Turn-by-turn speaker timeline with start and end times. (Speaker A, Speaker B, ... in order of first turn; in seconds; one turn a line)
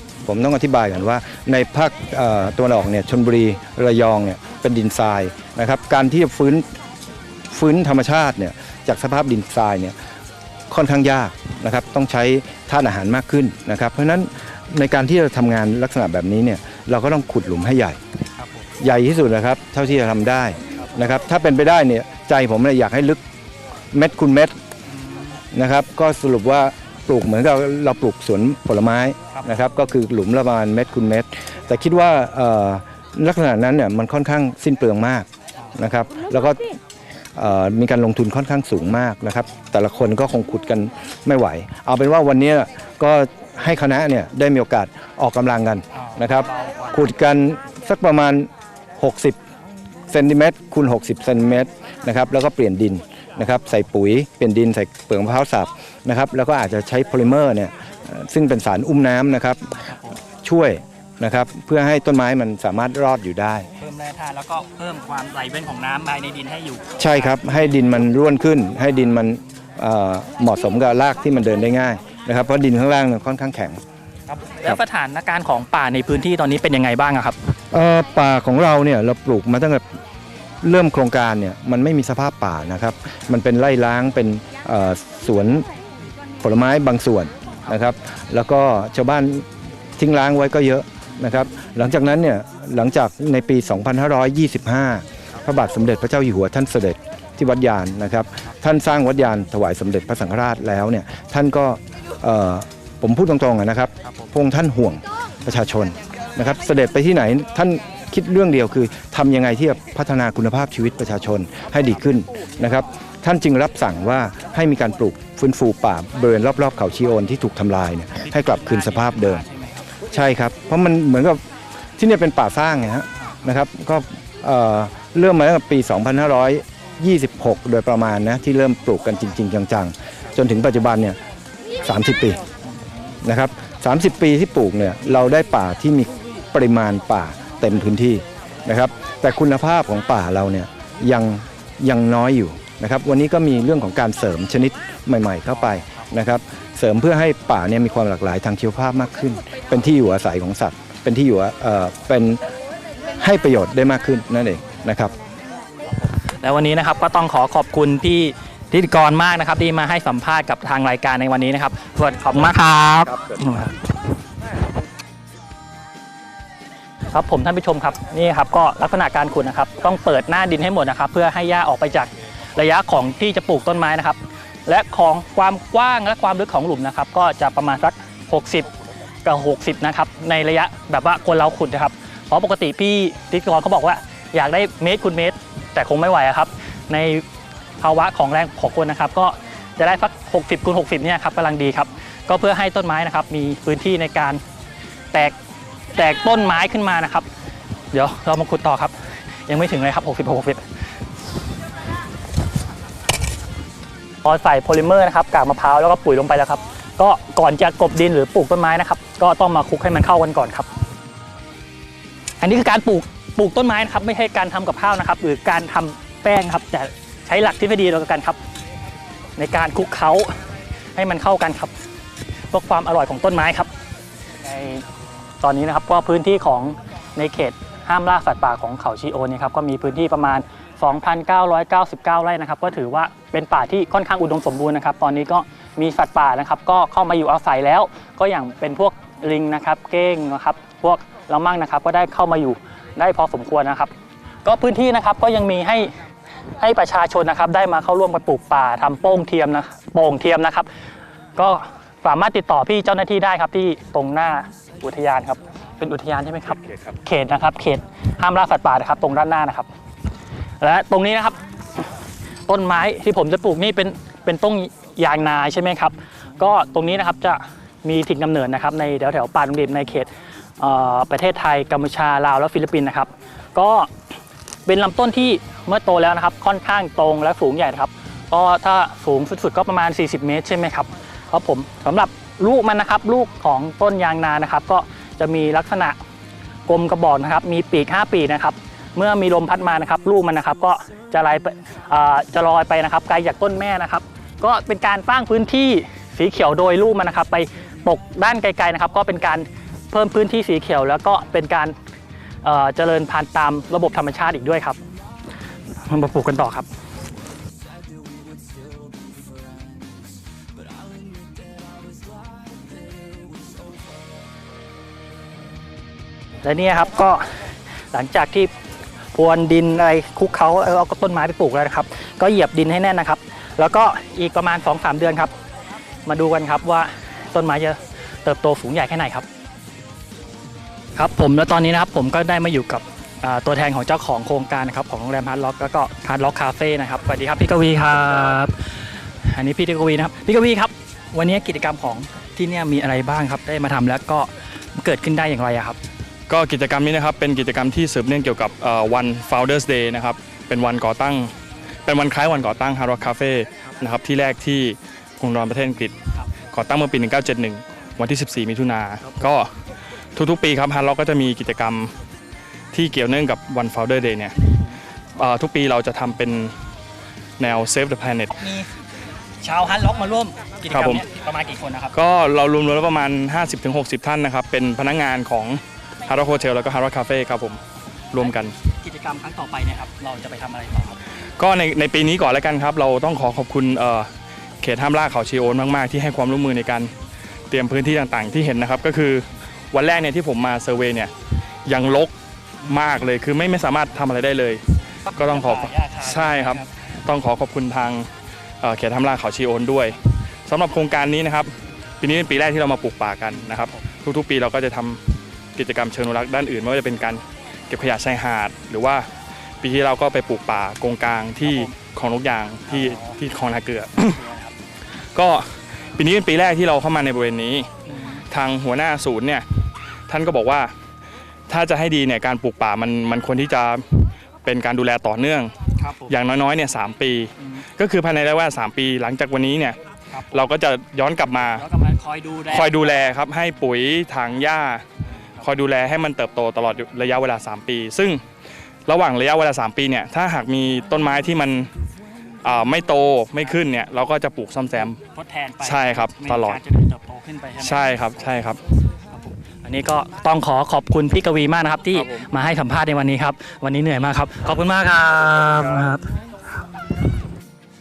Speaker A: 0.2-6.7
Speaker A: 7.5-9.9
Speaker A: 10.7-18.0
Speaker B: 18.4-18.6
Speaker A: 18.8-23.2
Speaker A: 23.9-24.5
Speaker B: 25.0-25.4
Speaker A: 25.5-36.8
Speaker A: 37.3-49.4
Speaker B: 46.0-46.9
Speaker A: 50.1-63.7
Speaker B: 59.8-60.1
Speaker B: 63.8-67.4
Speaker A: 67.0-73.8
Speaker B: 74.3-77.3
Speaker A: 77.7-79.8
Speaker A: 80.6-85.7
Speaker A: 86.4-89.5
Speaker A: 90.0-119.4
Speaker B: 118.2-119.8
Speaker A: 120.0-121.4
Speaker A: 122.0-131.2
Speaker A: 131.8-132.4
Speaker A: 133.2-152.4
Speaker A: 153.2-155.1
Speaker B: 156.4-163.8
Speaker B: 167.1-178.7
Speaker B: 179.2-187.2
Speaker B: 187.8-194.4
Speaker B: 195.9-197.3
Speaker B: 197.9-198.9
Speaker B: 199.4-200.6
Speaker B: 204.2-210.7
Speaker B: 212.4-218.4
Speaker B: 219.4-220.4
Speaker B: 220.9-221.7
Speaker B: 222.5-223.7
Speaker B: 224.4-224.8
Speaker B: 225.4-243.9
Speaker B: 244.4-245.9
Speaker B: 246.6-250.7
Speaker B: 251.3-259.7
Speaker B: 260.6-261.4
Speaker B: 262.5-273.9
Speaker B: 274.6-286.0
Speaker B: 286.7-301.7
Speaker B: 302.4-304.8
Speaker B: 305.9-306.7
Speaker B: 316.4-317.2
Speaker B: 317.9-318.5
Speaker B: 319.1-325.3
Speaker B: 326.1-329.2
Speaker B: 330.9-338.5
Speaker B: 339.2-345.8
Speaker C: 346.3-351.3
Speaker C: 351.8-355.9
Speaker C: 356.5-359.6
Speaker C: 360.1-361.9
Speaker C: 362.7-364.6
Speaker C: 365.1-366.6
Speaker C: 367.4-368.3
Speaker B: 368.3-368.7
Speaker B: 369.4-371.9
Speaker C: 370.7-371.0
Speaker C: 371.9-377.6
Speaker C: 378.1-378.5
Speaker B: 378.6-381.0
Speaker C: 381.4-384.1
Speaker C: 384.6-386.9
Speaker C: 387.5-391.1
Speaker C: 391.6-398.1
Speaker B: 395.1-396.7
Speaker C: 398.6-409.1
Speaker B: 403.3-403.8
Speaker C: 409.6-414.2
Speaker B: 411.4-411.7
Speaker B: 412.7-413.2
Speaker B: 414.1-414.5
Speaker C: 415.1-417.7
Speaker B: 417.9-418.2
Speaker C: 418.3-420.7
Speaker C: 421.5-425.5
Speaker B: 425.8-426.1
Speaker C: 426.1-429.8
Speaker B: 430.1-430.5
Speaker C: 430.3-431.6
Speaker B: 431.5-433.1
Speaker C: 432.5-434.8
Speaker C: 435.4-438.2
Speaker C: 438.9-441.7
Speaker C: 442.4-445.0
Speaker B: 445.1-448.5
Speaker C: 445.6-446.6
Speaker C: 447.6-448.6
Speaker B: 449.1-456.1
Speaker C: 452.0-452.2